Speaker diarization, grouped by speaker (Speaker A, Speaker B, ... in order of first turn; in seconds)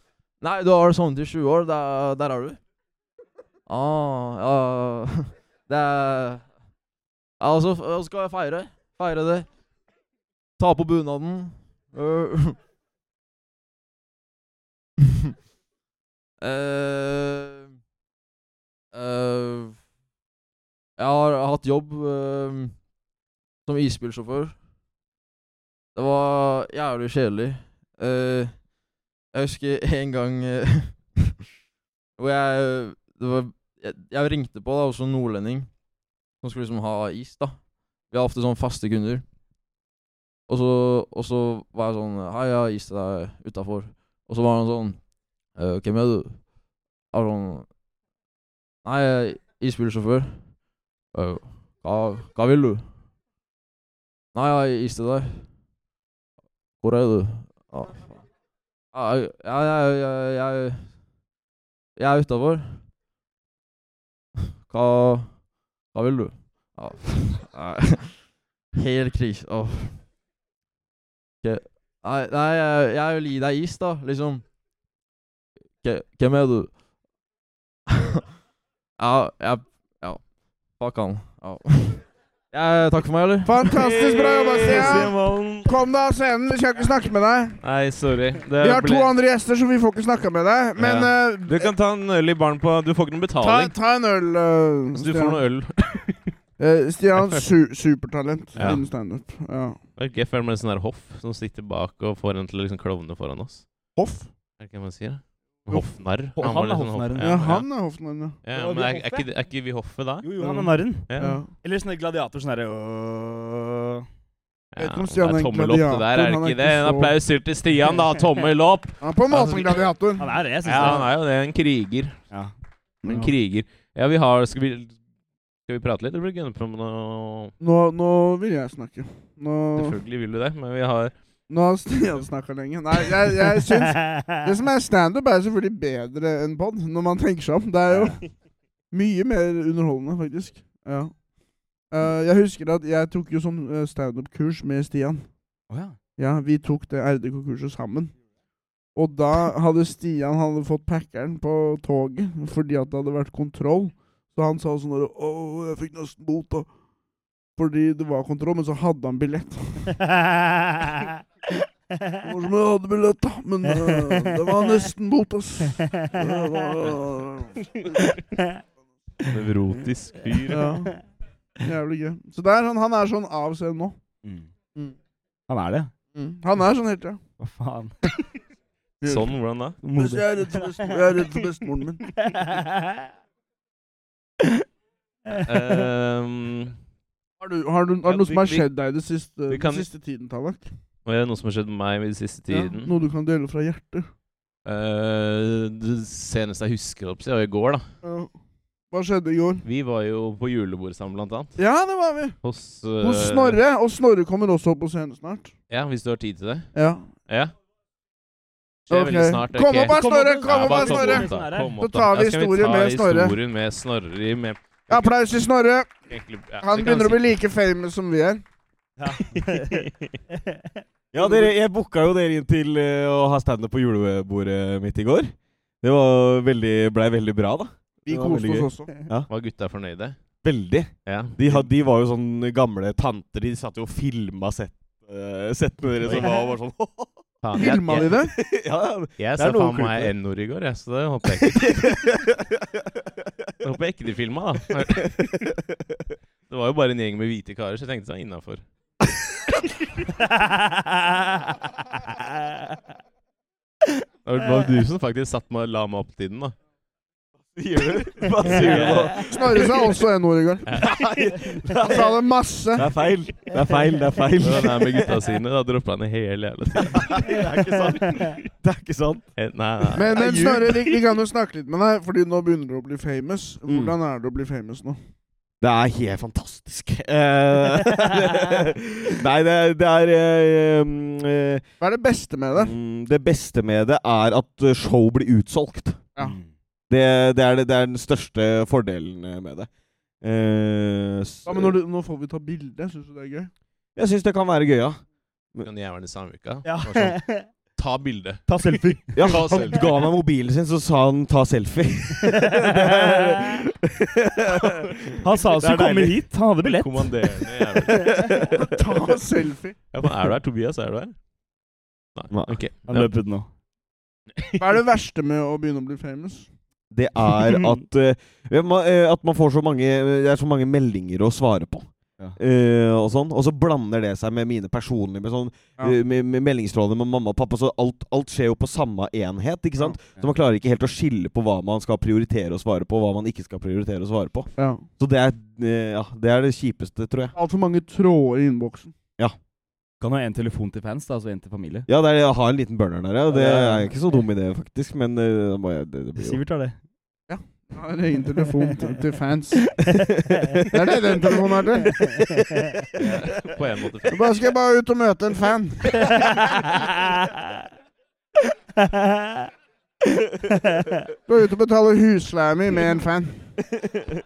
Speaker A: 0.4-2.6, 3.7-6.5, 7.4-9.5, 10.6-12.6, 16.4-17.6, 18.9-19.8, 21.0-22.8, 23.6-24.6, 25.9-28.6, 29.3-31.3, 32.2-35.7, 36.4-39.2, 40.5-45.0, 45.5-46.5, 47.1-47.7, 48.8-50.5, 51.1-52.9, 54.3-55.4, 56.8-58.2, 58.9-60.8, 62.0-62.8, 64.7-65.4, 65.9-68.1, 68.7-70.0, 71.4-74.4, 75.8-76.7, 77.9-78.2, 79.0-80.2, 80.8-83.6
Speaker B: 83.4-87.6, 88.6-91.7, 93.4-95.4, 96.6-99.8, 104.0-104.3, 107.2-108.4, 111.2-111.5, 114.8-117.1, 119.0-121.0, 127.6-130.0, 131.5-138.2, 138.9-141.2, 141.9-145.2, 146.2-148.2, 148.9-156.7, 157.6-159.9, 162.2-167.6, 170.5-171.0, 171.6-174.0, 176.1-177.2, 179.0-179.3, 179.9-182.0, 187.4-190.7, 192.5-194.1, 198.0-198.3, 198.9-199.6, 201.6-202.4, 203.0-205.5, 206.7-207.1, 208.9-213.3, 214.9-215.9, 216.6-218.4, 221.2-221.5, 228.1-228.9, 237.6-238.3, 259.2-260.8, 261.8-262.9, 269.9-275.0, 281.8-282.7, 291.4-293.5, 308.6-309.8, 314.6-316.5, 334.6-334.8, 337.4-338.9, 347.3-349.8, 350.7-352.1, 354.1-356.2, 361.3-363.5
Speaker C: 83.6-85.7, 87.6-89.1, 90.8-93.7, 95.0-96.3, 97.2-97.5, 98.5-98.8, 100.0-103.7, 104.6-107.7, 108.4-111.4, 114.7-119.8, 120.6-122.2, 123.0-125.0, 125.7-127.5, 129.8-131.1, 169.3-170.7, 179.0-179.8, 185.4-186.8, 188.0-188.7, 189.5-189.9, 191.1-192.9, 194.6-197.9, 199.6-201.6, 202.4-203.6, 205.7-206.7, 207.3-207.5, 208.9-215.1, 216.1-217.3, 219.3-219.9, 229.3-230.2, 231.0-231.6, 236.0-236.3, 237.4-238.3, 239.2-241.8, 243.6-245.5, 246.5-248.6, 254.2-256.6, 258.4-259.2, 260.7-261.0, 264.4-267.2, 269.4-270.8, 295.6-298.4, 299.2-300.1, 306.6-308.2, 309.9-311.1, 312.1-313.1, 352.9-354.3
Speaker D: 106.3-107.3, 108.5-109.3, 110.2-114.0, 120.2-121.0, 134.0-134.3, 137.9-138.2, 145.7-146.0, 160.2-161.1, 163.7-164.5, 166.0-166.4, 174.2-174.5, 175.5-175.9, 177.4-177.9, 179.8-180.9, 182.2-182.9, 209.9-211.7, 219.0-220.6, 250.3-251.3, 267.3-268.3, 286.2-286.5, 296.6-297.5, 298.5-299.7, 302.2-303.4, 305.2-307.2, 312.9-313.5, 340.0-341.9, 343.3-343.9, 346.1-346.8, 352.0-352.8, 356.1-357.4, 358.8-359.4, 360.6-360.9
Speaker E: 221.1-229.3, 230.4-237.2, 237.9-240.1, 241.4-243.0, 257.5-259.9, 260.8-262.1, 262.7-265.1, 266.8-269.3, 273.7-273.9, 275.6-281.6, 282.5-286.0, 286.9-289.7, 290.2-291.8, 293.9-295.0, 299.1-306.2, 312.3-312.6, 316.9-337.3, 341.9-346.4